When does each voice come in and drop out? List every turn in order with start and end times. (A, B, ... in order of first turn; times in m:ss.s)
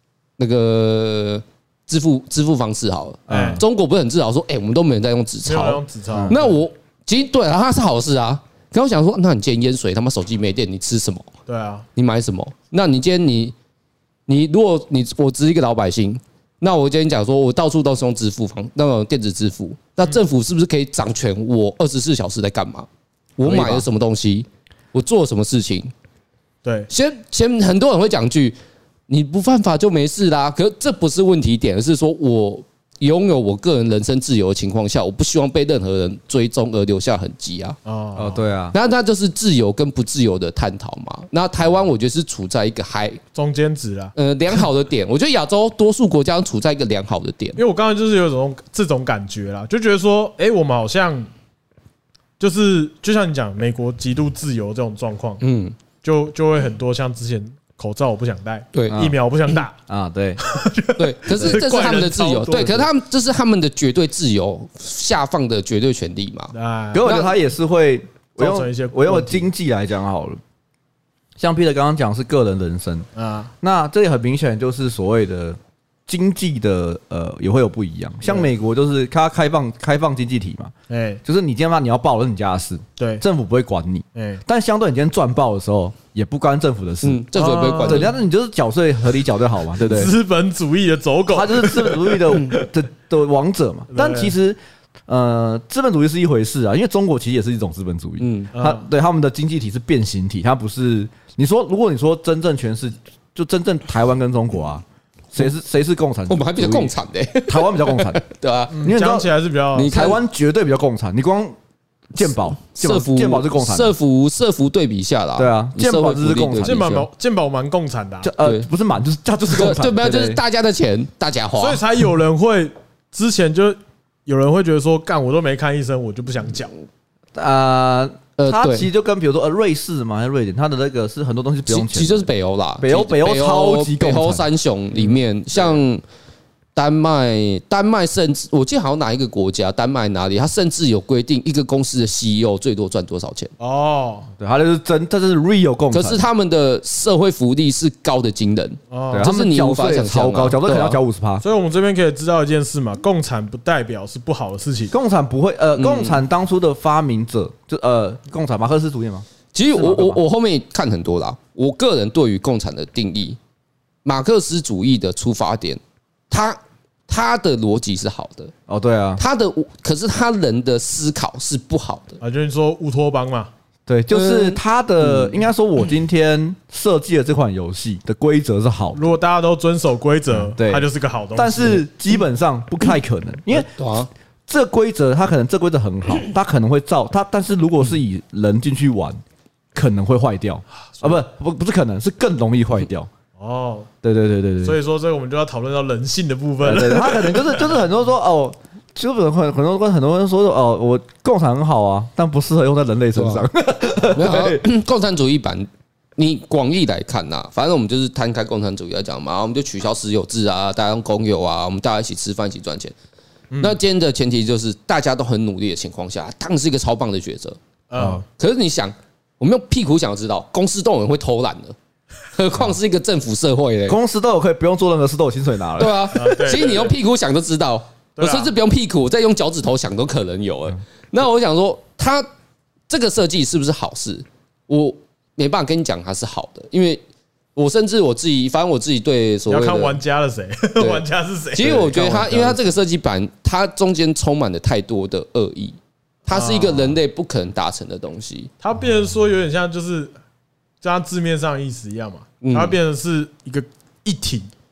0:00.4-0:11.3 A
0:03.3-0:03.6 B
0:03.3-0:03.6 C
0:05.4-0:06.6 C
0:11.5-0:11.9 C
0:12.0-0:13.5 A
0:14.3-0:22.9 A
0:23.4-0:25.9 A
0:23.4-0:23.8 B
0:26.6-0:26.9 C
0:26.9-0:28.6 A
0:29.1-0:37.8 A
0:37.8-0:38.4 C
0:38.2-0:38.8 B
0:38.7-0:43.2 A
0:43.3-0:44.1 C
0:44.2-0:47.6 A
0:47.6-0:51.3 C
0:52.4-0:55.4 C
0:55.4-0:55.7 A
0:56.0-0:59.7 C
0:58.7-0:59.1 A
0:59.9-1:00.4 B
1:00.4-1:02.9 C
1:01.0-1:07.3 A
1:06.5-1:07.2 C
1:06.9-1:10.4 B
1:08.4-1:09.5 C
1:11.4-1:13.1 B
1:13.2-1:13.5 C
1:13.6-1:20.7 B
1:18.2-1:18.5 C
1:20.9-1:21.2 C
1:21.2-1:27.2 B
1:23.0-1:23.2 C
1:24.1-1:24.4 C
1:27.0-1:28.1 A
1:27.3-1:28.1 C
1:27.8-1:30.1 B
1:29.8-1:32.6 C
1:31.3-1:46.9 B
1:33.9-1:34.3 C
1:38.2-1:38.5 A
1:38.5-1:38.9 C
1:46.3-1:48.8 A
1:47.4-1:48.2 B
1:48.7-1:50.1 C
1:48.8-1:49.3 B
1:49.7-1:50.2 A
1:49.8-1:51.6 B
1:52.1-1:53.9 B
1:52.7-1:57.1 A
1:55.4-1:56.9 B
1:56.6-1:58.3 C
1:58.2-2:00.4 B
1:59.5-2:01.8 A
2:01.6-2:06.7 C
2:07.3-2:12.3 B
2:08.4-2:08.9 A
2:11.7-2:16.0 A
2:12.8-2:14.5 B
2:16.7-2:23.5 A
2:23.6-2:24.3 C
2:24.4-2:26.2 B
2:25.9-2:31.0 A
2:28.9-2:29.3 C
2:29.1-2:31.4 B
2:31.4-2:34.9 C
2:34.9-2:40.2 B
2:35.8-2:36.2 A
2:39.5-2:43.4 A
2:44.0-2:48.5 A
2:48.7-2:49.2 B
2:49.2-2:52.2 A
2:52.2-2:53.5 C
2:53.9-2:59.0 B
2:54.1-2:55.4 A
2:58.9-3:01.8 C
3:00.3-3:03.7 B
3:03.5-3:04.1 A
3:04.5-3:09.2 B
3:09.7-3:13.1 B
3:10.9-3:11.2 C
3:13.4-3:13.9 C
3:14.0-3:14.8 B
3:14.6-3:17.8 C
3:16.6-3:24.6 B
3:23.1-3:23.5 A
3:24.1-3:32.9 A
3:33.5-3:33.8 C
3:33.6-3:37.6 A
3:37.9-3:38.2 C
3:38.3-3:41.7 A
3:42.3-3:44.0 A
3:43.9-3:46.0 B
3:45.8-3:52.2 A
3:46.1-3:47.0 C
3:48.2-3:48.5 C
3:52.9-3:57.0 A
3:57.6-4:00.0 A
3:59.5-4:02.6 C
4:00.8-4:08.5 A
4:06.3-4:06.9 C
4:08.6-4:10.1 C
4:10.8-4:14.5 C
4:12.4-4:12.8 A